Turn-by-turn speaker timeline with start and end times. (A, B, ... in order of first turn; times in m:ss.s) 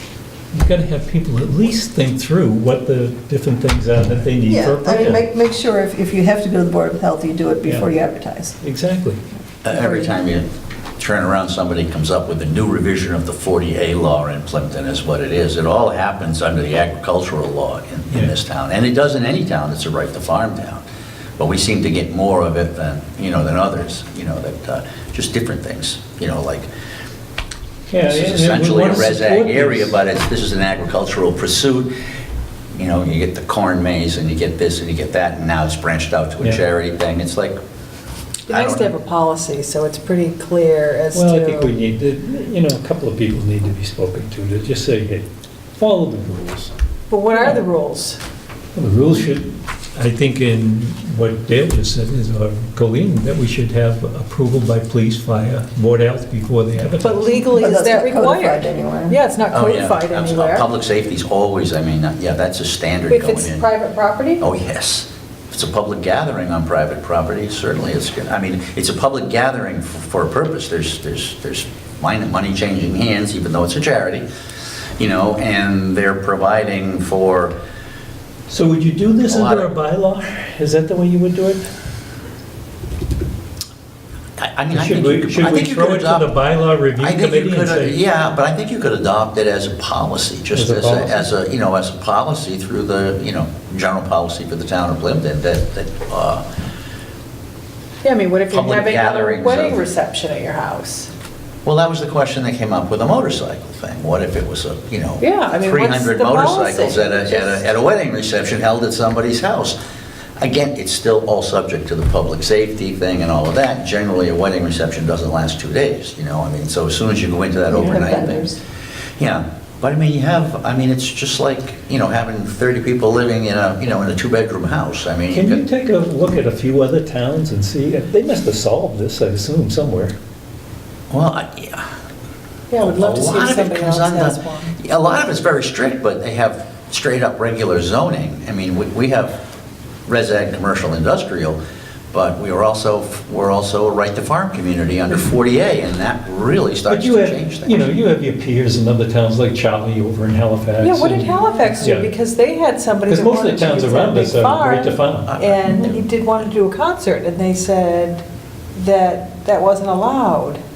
0:00.5-0:05.2 A
0:04.4-0:08.5 B
0:07.6-0:07.9 A
0:08.6-0:09.2 A
0:09.6-0:20.8 C
0:09.7-0:10.1 B
0:21.4-0:26.7 C
0:27.9-0:30.0 A
0:28.1-0:31.9 C
0:32.7-0:37.6 C
0:38.5-0:38.9 C
0:38.5-0:41.7 D
0:41.1-0:45.2 A
0:45.8-0:46.7 A
0:47.1-0:48.2 D
0:47.3-0:47.6 A
0:48.7-0:57.3 A
0:57.0-1:00.7 D
0:57.3-0:59.2 B
0:59.5-1:03.7 C
1:03.1-1:04.4 D
1:04.4-1:14.2 C
1:15.0-1:17.5 C
1:18.5-1:21.6 A
1:19.3-1:19.7 C
1:24.4-1:26.3 C
1:24.7-1:28.0 A
1:27.0-1:36.4 C
1:30.5-1:31.3 A
1:38.0-1:41.1 D
1:38.5-1:39.8 C
1:41.6-1:49.8 C
1:45.2-1:47.6 D
1:50.4-1:58.6 C
1:57.7-1:58.6 B
1:59.2-2:05.6 C
2:05.3-2:10.1 A
2:11.1-2:11.9 C
2:12.7-2:14.7 D
2:12.8-2:19.4 C
2:20.1-2:21.6 C
2:22.1-2:27.8 C
2:26.9-2:32.1 A
2:30.8-2:38.2 D
2:33.1-2:35.3 A
2:35.2-2:36.4 C
2:38.7-2:40.6 D